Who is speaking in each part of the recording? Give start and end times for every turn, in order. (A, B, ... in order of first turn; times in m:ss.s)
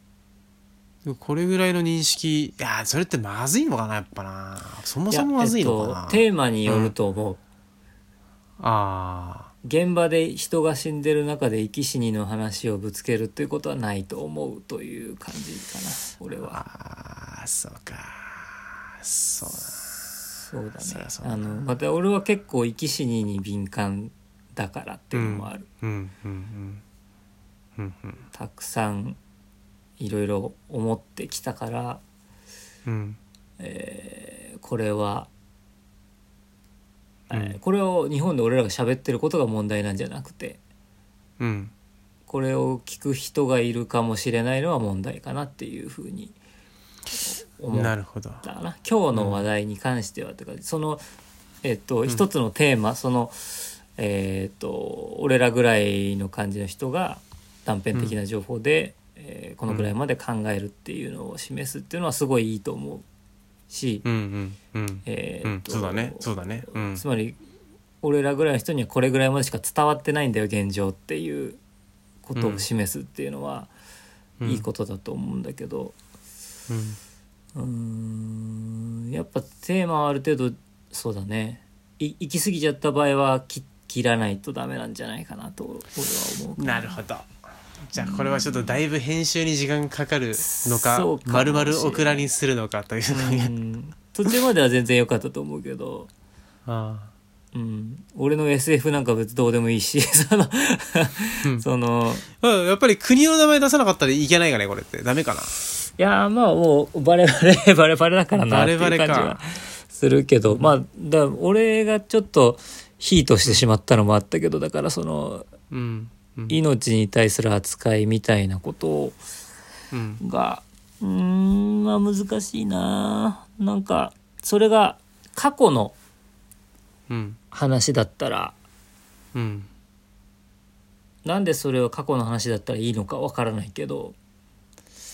0:01.0-0:06.9 A
0:05.1-0:07.4 B
0:08.6-0:09.5 A
0:09.6-0:16.6 B
0:16.4-0:20.1 A
0:19.5-0:25.7 B
0:20.8-0:21.6 A
0:25.1-0:26.8 A
0:27.8-0:28.2 A
0:28.3-0:29.2 B
0:30.0-0:32.0 B
0:32.9-0:33.2 A
0:33.6-0:35.3 B
0:37.3-0:40.6 B
0:37.3-0:37.6 A
0:41.4-0:41.7 A
0:42.3-0:46.4 B
0:47.2-0:51.0 B
0:47.7-0:48.4 A
0:49.1-0:49.4 A
0:51.6-1:03.1 B
1:03.7-1:04.0 B
1:04.0-1:07.0 A
1:05.0-1:07.4 B
1:08.0-1:11.6 B
1:12.2-1:13.7 B
1:12.4-1:12.7 A
1:14.4-1:14.7 A
1:14.4-1:16.0 B
1:16.7-1:17.0 A
1:17.5-1:27.0 B
1:26.6-1:27.3 A
1:27.9-1:33.5 A
1:28.0-1:28.8 B
1:30.4-1:32.3 B
1:33.1-1:36.1 B
1:36.7-1:37.1 A
1:37.5-1:42.2 B
1:42.4-1:45.5 A
1:46.0-1:55.5 B
1:48.5-1:49.4 A
1:50.5-1:50.8 A
1:55.7-1:56.6 A
1:56.5-1:59.2 B
1:59.9-2:00.2 A
2:00.2-2:06.0 B
2:07.1-2:07.4 A
2:07.5-2:08.6 B
2:09.4-2:09.7 A
2:11.2-2:14.2 B